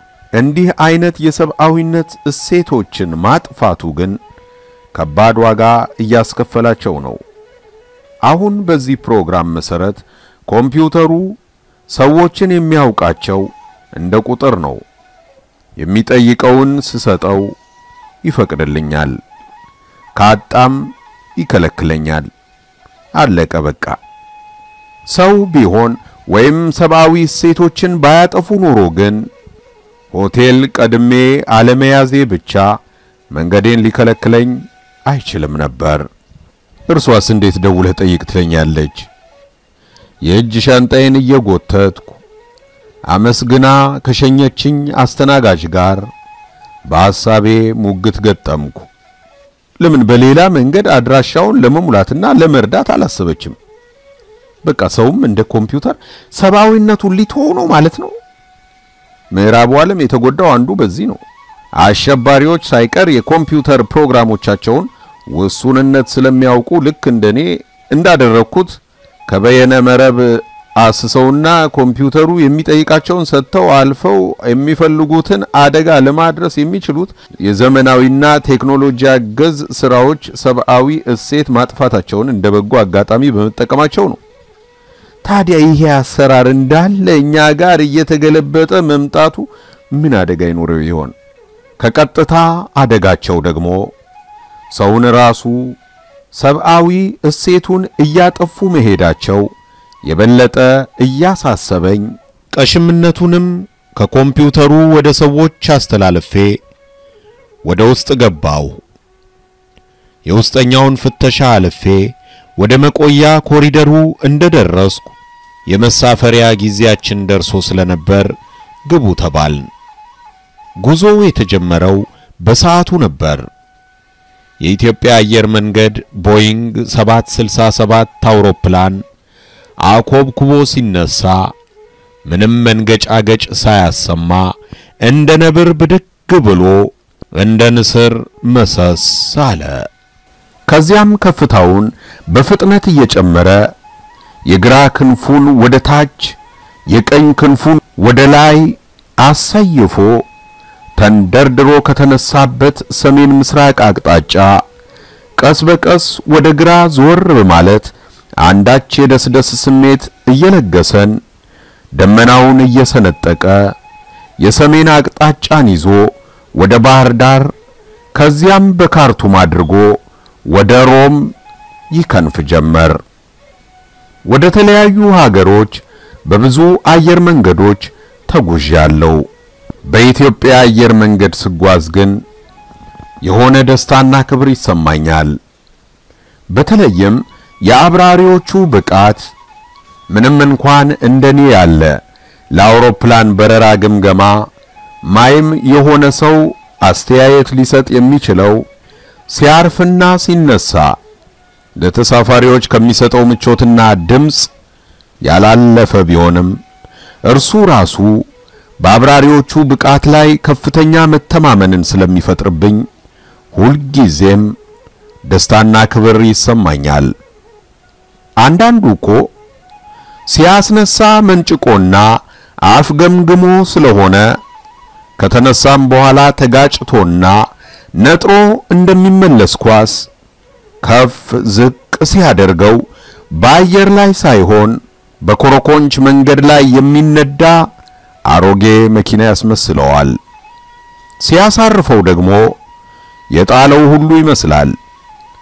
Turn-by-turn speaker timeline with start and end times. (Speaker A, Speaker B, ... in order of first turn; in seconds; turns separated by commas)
Speaker A: 0.3-4.2, Speaker A: 4.9-7.2, Speaker A: 8.2-11.4, Speaker A: 11.9-14.8, Speaker A: 15.8-17.6, Speaker A: 18.2-19.2, Speaker A: 20.1-22.3, Speaker A: 23.2-24.0, Speaker A: 25.1-29.3, Speaker A: 30.1-32.8, Speaker A: 33.3-36.1, Speaker A: 36.9-39.1, Speaker A: 40.3-42.2, Speaker A: 43.1-46.1, Speaker A: 46.9-48.9, Speaker A: 49.8-53.6, Speaker A: 54.6-58.1, Speaker A: 59.3-61.2, Speaker A: 61.8-84.2, Speaker A: 85.2-91.2, Speaker A: 91.8-93.9, Speaker A: 94.7-95.8, Speaker A: 96.3-99.5, Speaker A: 100.0-106.6, Speaker A: 107.6-108.8, Speaker A: 110.3-115.1, Speaker A: 115.7-119.7, Speaker A: 120.8-123.5, Speaker A: 124.6-129.0, Speaker A: 129.8-131.5, Speaker A: 132.3-139.9, Speaker A: 140.7-143.7, Speaker A: 144.5-146.4, Speaker A: 146.9-150.2, Speaker A: 151.0-154.6, Speaker A: 155.4-161.2, Speaker A: 161.9-163.7, Speaker A: 164.4-167.5, Speaker A: 168.1-171.3, Speaker A: 171.9-173.0, Speaker A: 174.3-179.3, Speaker A: 179.9-182.2, Speaker A: 183.2-185.4, Speaker A: 186.5-189.3, Speaker A: 190.1-192.0, Speaker A: 192.5-194.5, Speaker A: 195.1-198.7, Speaker A: 199.3-201.0, Speaker A: 201.8-204.5, Speaker A: 205.2-206.6, Speaker A: 207.3-208.2, Speaker A: 208.8-212.8, Speaker A: 213.5-214.5, Speaker A: 215.2-217.1, Speaker A: 218.4-219.3, Speaker A: 220.3-224.4, Speaker A: 225.2-230.1, Speaker A: 230.8-237.7, Speaker A: 238.3-240.2, Speaker A: 241.2-242.6, Speaker A: 243.3-244.8